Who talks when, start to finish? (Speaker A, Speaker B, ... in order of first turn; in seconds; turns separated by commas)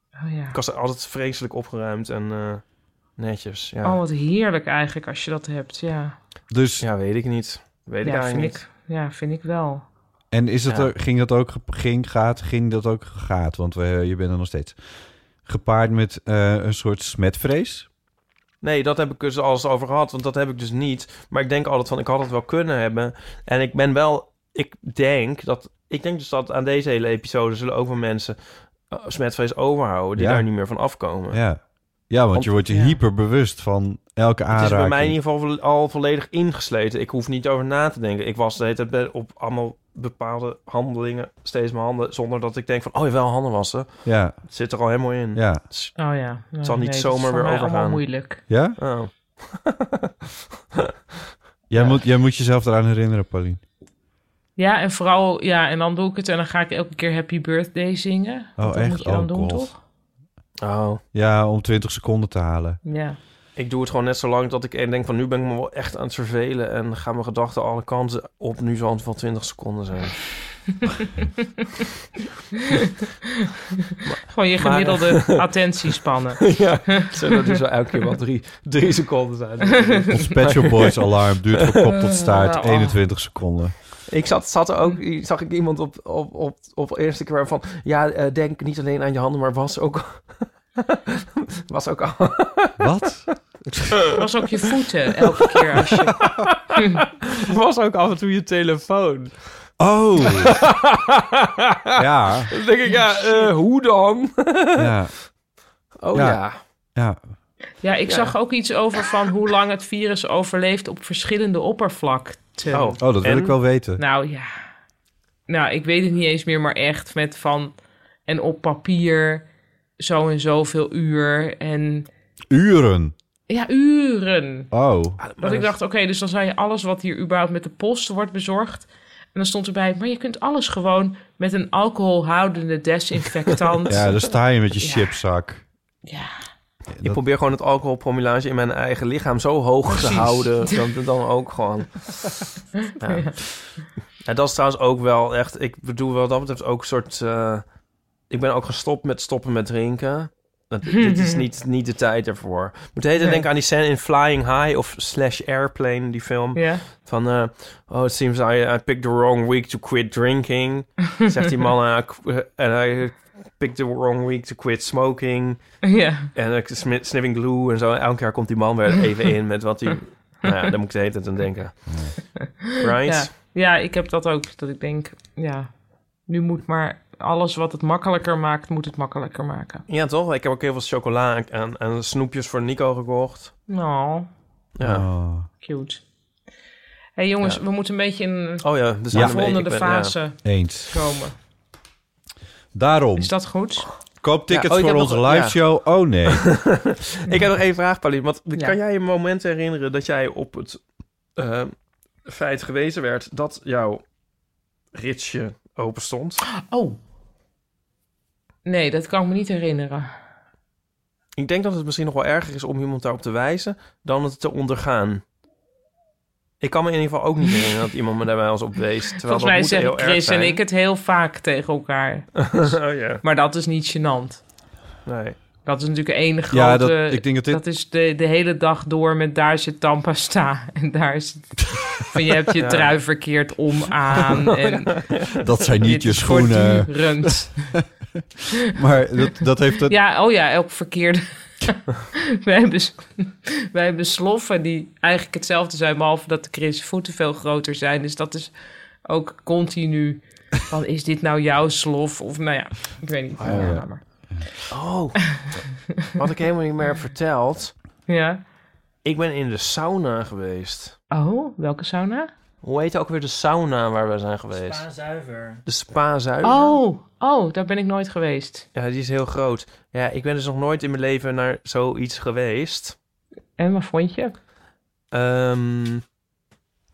Speaker A: 0.2-0.6, Speaker B: 0.5-2.6, Speaker B: 3.2-4.0, Speaker A: 3.8-6.2, Speaker C: 6.5-6.9, Speaker B: 6.8-8.6, Speaker A: 8.0-9.8, Speaker C: 10.3-14.8, Speaker B: 10.7-10.9, Speaker C: 15.4-17.9, Speaker B: 18.6-31.5, Speaker C: 30.2-30.8, Speaker C: 31.3-35.2, Speaker A: 32.7-33.0, Speaker B: 34.5-46.0, Speaker C: 44.0-44.5, Speaker C: 45.3-45.6, Speaker A: 46.0-48.4, Speaker B: 46.6-49.9, Speaker C: 48.5-48.8, Speaker C: 51.7-53.6, Speaker B: 51.8-52.0, Speaker A: 54.6-59.8, Speaker C: 58.6-59.8, Speaker B: 60.6-61.0, Speaker C: 61.1-62.8, Speaker A: 62.9-63.2, Speaker B: 63.6-70.4, Speaker B: 74.1-75.6, Speaker A: 74.3-77.3, Speaker B: 76.4-81.8, Speaker A: 79.9-80.3, Speaker C: 80.1-83.8, Speaker A: 82.0-83.0, Speaker B: 84.1-94.2, Speaker C: 92.8-93.4, Speaker A: 94.2-96.2, Speaker B: 96.2-99.7, Speaker C: 99.8-100.6, Speaker B: 100.3-102.0, Speaker C: 102.0-102.5, Speaker B: 102.5-104.9, Speaker A: 102.8-103.5, Speaker C: 104.8-105.3, Speaker B: 106.0-106.6, Speaker C: 106.1-107.2, Speaker A: 107.8-113.2, Speaker B: 108.1-108.3, Speaker B: 112.7-113.6, Speaker C: 113.0-114.0, Speaker A: 114.0-114.5, Speaker A: 115.5-119.5, Speaker A: 120.0-122.1, Speaker C: 122.5-123.1, Speaker A: 123.5-124.7, Speaker C: 124.7-125.2, Speaker B: 125.2-125.7, Speaker A: 125.4-134.2, Speaker C: 133.9-135.7, Speaker A: 134.8-135.2, Speaker A: 136.1-136.4, Speaker C: 136.9-137.2, Speaker B: 137.0-142.3, Speaker A: 139.9-140.8, Speaker B: 143.0-143.7, Speaker A: 143.0-143.4, Speaker B: 144.2-147.7, Speaker B: 148.3-172.0, Speaker A: 150.9-151.4, Speaker A: 153.2-153.4, Speaker A: 156.6-156.8, Speaker A: 165.9-166.3, Speaker C: 171.9-172.2, Speaker B: 172.8-173.3, Speaker A: 173.0-179.8, Speaker B: 179.9-183.5, Speaker A: 183.7-184.3, Speaker B: 184.8-185.1, Speaker C: 184.8-185.5, Speaker A: 185.6-186.0, Speaker A: 187.2-191.4, Speaker B: 188.6-190.2, Speaker C: 189.1-189.6, Speaker C: 190.4-190.9, Speaker C: 192.7-193.5, Speaker A: 193.2-193.9, Speaker C: 194.2-196.8, Speaker B: 194.5-200.8, Speaker B: 201.4-201.7, Speaker B: 202.2-204.0, Speaker B: 204.9-206.4, Speaker A: 206.7-207.0, Speaker A: 208.7-210.1, Speaker B: 211.4-215.2, Speaker B: 216.6-220.6, Speaker A: 219.2-224.4, Speaker B: 222.4-223.2, Speaker B: 225.1-225.4, Speaker A: 225.6-235.2, Speaker C: 226.5-227.6, Speaker B: 232.6-233.0, Speaker B: 234.7-235.3, Speaker C: 235.4-237.8, Speaker A: 235.8-237.8, Speaker C: 238.6-239.9, Speaker A: 239.9-248.5, Speaker A: 249.1-254.6, Speaker B: 253.4-253.8, Speaker C: 253.4-254.5, Speaker B: 254.7-257.7, Speaker A: 258.1-258.4, Speaker B: 259.0-261.0, Speaker A: 261.1-262.3, Speaker B: 262.6-266.8, Speaker A: 266.4-268.7, Speaker B: 268.7-273.0, Speaker A: 273.6-274.4, Speaker B: 275.1-276.0